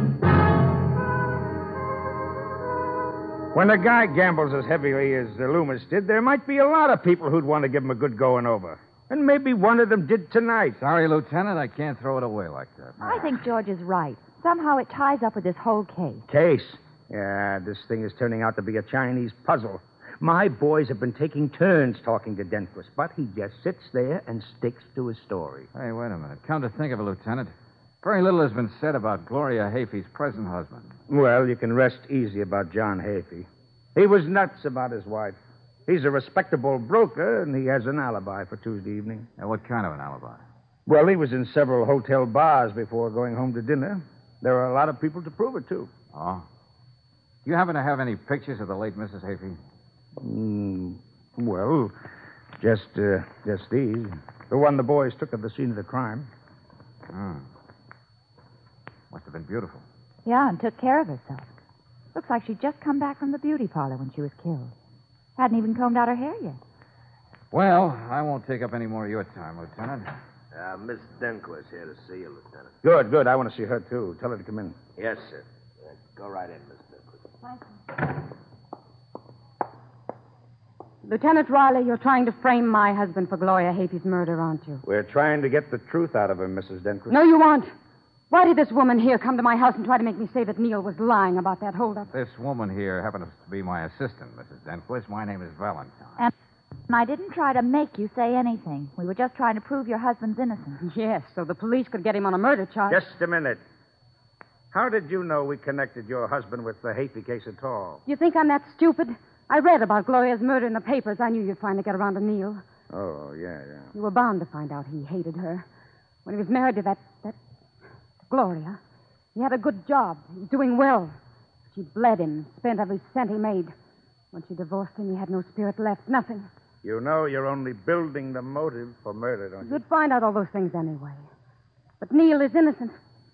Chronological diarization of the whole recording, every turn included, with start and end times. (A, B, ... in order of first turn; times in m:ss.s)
0:03.5-0:10.8 A
0:10.8-0:13.3 B
0:13.0-0:16.2 C
0:16.3-0:25.7 A
0:25.7-0:30.9 B
0:31.1-0:39.2 A
0:39.4-0:40.4 B
0:40.9-0:45.9 A
0:46.1-0:46.4 B
0:47.4-0:49.6 B
0:50.2-0:51.9 A
0:52.6-0:56.3 A
0:57.1-0:57.5 B
0:59.1-0:59.8 B
1:00.2-1:01.5 C
1:02.1-1:04.7 C
1:05.4-1:06.6 C
1:07.5-1:10.1 B
1:10.5-1:12.7 D
1:12.8-1:14.8 A
1:15.0-1:17.2 D
1:21.0-1:24.8 E
1:24.8-1:27.2 A
1:27.1-1:27.7 E
1:28.3-1:32.1 E
1:32.1-1:36.2 B
1:36.9-1:40.8 C
1:40.8-1:43.0 E
1:42.9-1:43.6 A
1:44.7-1:48.0 A
1:48.1-1:52.6 E
1:52.9-1:53.9 A
1:53.9-1:55.6 E
1:56.2-1:57.4 E
1:58.2-1:58.8 E
1:59.4-2:01.1 E
2:01.7-2:03.7 E
2:04.3-2:06.5 E
2:06.8-2:09.8 A
2:09.6-2:11.2 E
2:12.0-2:13.0 E